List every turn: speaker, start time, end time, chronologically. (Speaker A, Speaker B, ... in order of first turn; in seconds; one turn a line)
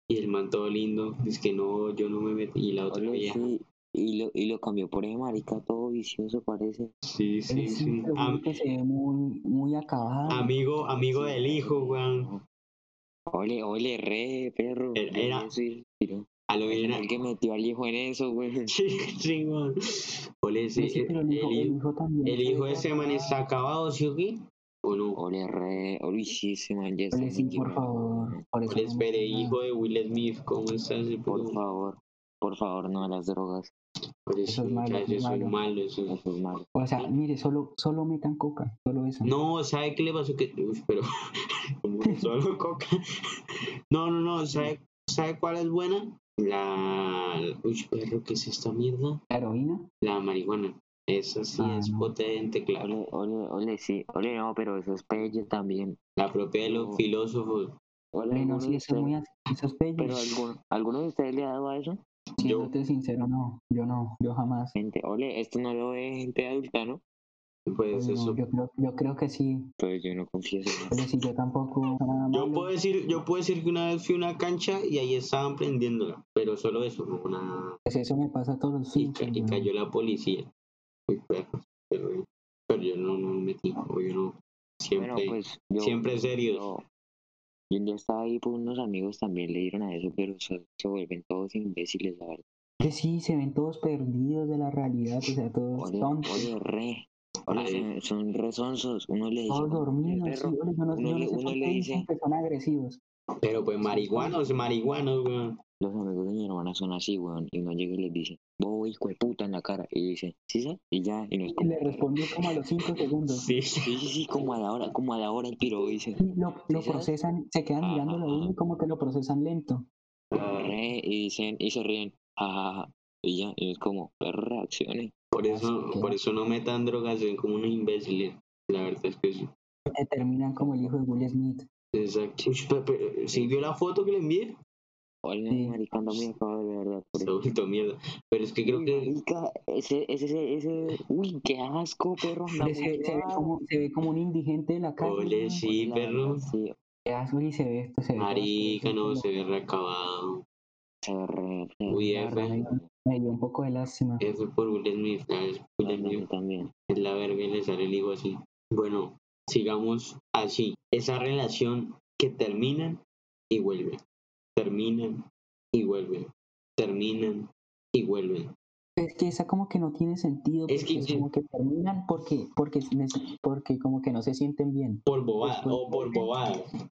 Speaker A: 0.1-3.5
Speaker B: 2.9-6.9
Speaker A: 7.1-8.4
Speaker C: 7.5-10.5
Speaker A: 10.3-12.3
Speaker B: 10.8-12.4
Speaker B: 13.3-18.7
Speaker A: 14.9-15.5
Speaker A: 16.5-17.1
Speaker A: 18.7-19.7
Speaker A: 20.4-25.2
Speaker C: 20.8-23.4
Speaker B: 25.1-28.4
Speaker C: 27.1-29.6
Speaker A: 28.7-31.6
Speaker B: 31.3-33.7
Speaker A: 34.3-36.2
Speaker C: 34.5-35.5
Speaker B: 36.1-37.1
Speaker C: 36.7-39.3
Speaker A: 39.2-41.0
Speaker A: 41.8-42.9
Speaker A: 43.9-49.2
Speaker C: 49.3-49.9
Speaker A: 50.0-53.0
Speaker C: 51.6-52.1
Speaker B: 52.8-56.0
Speaker A: 56.2-57.7
Speaker B: 56.6-57.0
Speaker B: 58.1-59.1
Speaker C: 58.3-60.2
Speaker B: 60.0-62.0
Speaker A: 62.4-62.7
Speaker C: 62.4-64.7
Speaker B: 64.7-67.0
Speaker A: 67.7-68.4
Speaker C: 67.9-69.7
Speaker B: 69.8-71.0
Speaker C: 70.9-72.7
Speaker A: 72.3-77.8
Speaker C: 77.8-79.7
Speaker A: 79.0-80.5
Speaker A: 81.1-86.7
Speaker B: 84.9-86.8
Speaker B: 87.7-92.4
Speaker C: 92.8-96.5
Speaker B: 95.8-102.1
Speaker A: 97.5-97.9
Speaker C: 99.5-103.0
Speaker A: 103.4-105.6
Speaker C: 103.8-104.4
Speaker B: 105.8-112.1
Speaker C: 111.5-113.5
Speaker A: 113.3-114.5
Speaker B: 113.8-117.1
Speaker C: 116.2-119.9
Speaker B: 117.8-118.5
Speaker A: 120.3-120.8
Speaker B: 120.6-125.1
Speaker A: 125.3-129.5
Speaker C: 125.5-126.2
Speaker C: 129.9-131.7
Speaker B: 130.6-131.3
Speaker A: 131.9-134.6
Speaker B: 133.3-133.7
Speaker B: 135.2-137.3
Speaker C: 135.5-135.8
Speaker A: 137.1-139.1
Speaker B: 138.7-143.5
Speaker C: 142.6-145.6
Speaker A: 145.0-146.5
Speaker B: 145.7-146.8
Speaker C: 147.1-149.3
Speaker A: 148.1-150.4
Speaker B: 151.0-152.8
Speaker A: 151.9-152.6
Speaker C: 152.2-154.2
Speaker A: 154.2-156.2
Speaker B: 155.8-156.7
Speaker A: 156.9-164.0
Speaker A: 164.6-168.5
Speaker C: 169.0-176.3
Speaker A: 170.7-171.3
Speaker A: 175.1-176.7